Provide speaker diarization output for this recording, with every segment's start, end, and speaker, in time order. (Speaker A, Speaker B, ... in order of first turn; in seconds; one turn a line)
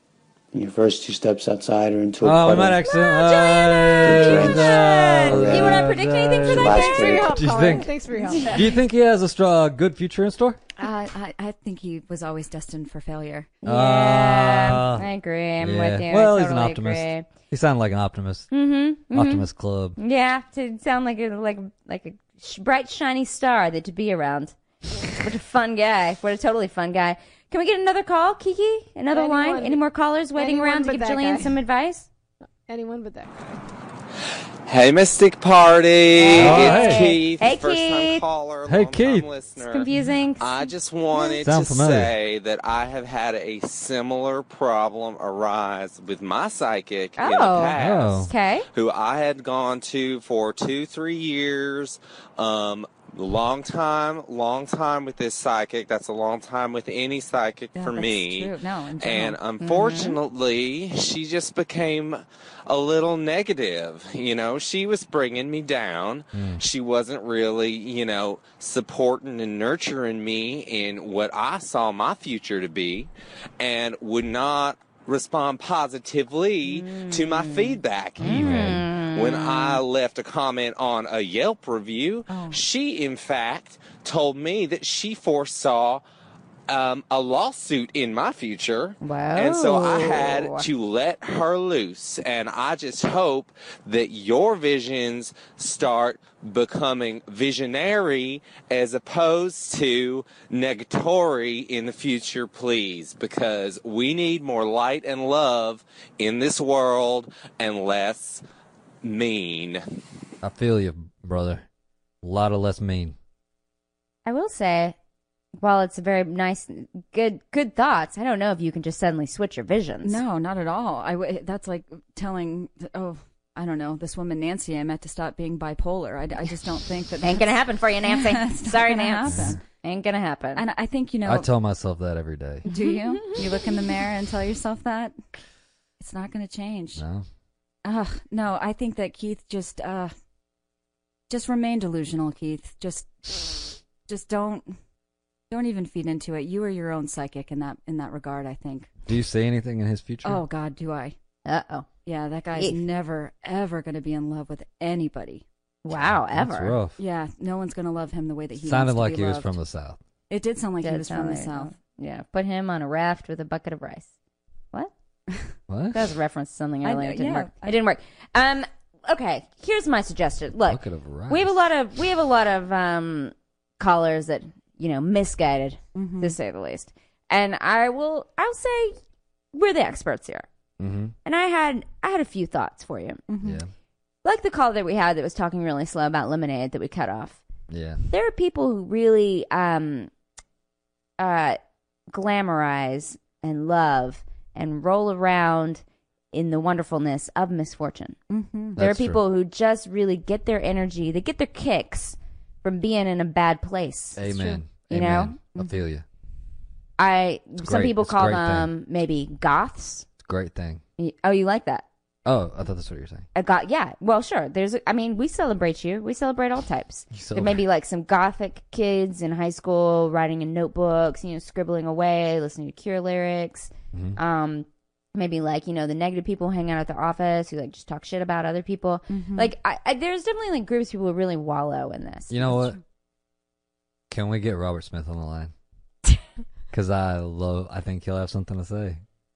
Speaker A: 0.5-2.8
Speaker B: 2.2-7.9
Speaker C: 2.8-7.4
Speaker A: 4.0-5.9
Speaker A: 6.5-7.6
Speaker D: 6.8-8.7
Speaker B: 8.5-10.6
Speaker E: 10.8-13.6
Speaker B: 13.7-15.1
Speaker C: 13.7-17.3
Speaker B: 15.6-18.5
Speaker C: 18.5-24.6
Speaker B: 19.1-20.0
Speaker C: 25.1-32.1
Speaker D: 29.1-29.8
Speaker D: 30.4-31.6
Speaker D: 32.7-33.6
Speaker F: 34.7-86.0
Speaker C: 36.2-38.2
Speaker B: 36.4-37.1
Speaker B: 38.6-39.3
Speaker C: 39.6-41.4
Speaker B: 41.4-42.1
Speaker C: 47.2-48.7
Speaker B: 47.8-48.3
Speaker E: 57.8-59.4
Speaker C: 59.6-60.2
Speaker B: 66.3-66.6
Speaker C: 76.6-79.8
Speaker B: 78.2-78.8
Speaker E: 82.3-82.6
Speaker F: 86.7-108.4
Speaker C: 89.0-90.7
Speaker F: 109.0-109.8
Speaker B: 110.4-111.7
Speaker B: 112.2-113.2
Speaker C: 114.2-115.0
Speaker C: 115.6-120.2
Speaker E: 120.0-129.6
Speaker C: 127.2-130.6
Speaker B: 129.3-129.6
Speaker E: 130.6-131.5
Speaker B: 131.2-132.7
Speaker E: 132.7-135.1
Speaker C: 132.7-133.4
Speaker E: 136.0-137.0
Speaker B: 137.0-137.3
Speaker E: 137.8-140.1
Speaker E: 141.3-144.8
Speaker E: 145.5-148.9
Speaker B: 149.1-150.4
Speaker E: 150.2-151.2
Speaker C: 151.5-151.9
Speaker E: 152.1-155.4
Speaker C: 155.8-156.8
Speaker B: 155.9-157.0
Speaker E: 157.0-159.6
Speaker B: 158.6-160.0
Speaker E: 160.3-161.7
Speaker C: 160.8-164.1
Speaker B: 165.7-166.0
Speaker C: 165.9-179.0
Speaker E: 166.8-167.8
Speaker B: 170.7-171.6
Speaker E: 175.9-176.4
Speaker C: 179.5-180.5
Speaker B: 180.8-181.1
Speaker C: 181.2-183.2
Speaker E: 183.3-183.6
Speaker B: 183.4-183.7
Speaker C: 184.2-187.4
Speaker B: 187.7-188.0
Speaker C: 188.1-190.1
Speaker C: 191.2-191.6
Speaker C: 192.1-198.2
Speaker E: 198.3-198.8
Speaker B: 198.8-199.2
Speaker C: 198.8-204.2
Speaker B: 204.2-206.1
Speaker C: 204.9-205.4
Speaker C: 207.0-210.1
Speaker B: 207.6-208.7
Speaker B: 210.2-210.8
Speaker C: 211.0-211.9
Speaker B: 212.2-213.3
Speaker C: 213.3-232.4
Speaker B: 217.1-217.6
Speaker B: 223.9-224.2
Speaker E: 229.1-229.5
Speaker B: 232.3-232.8
Speaker B: 234.1-235.5
Speaker B: 236.7-239.0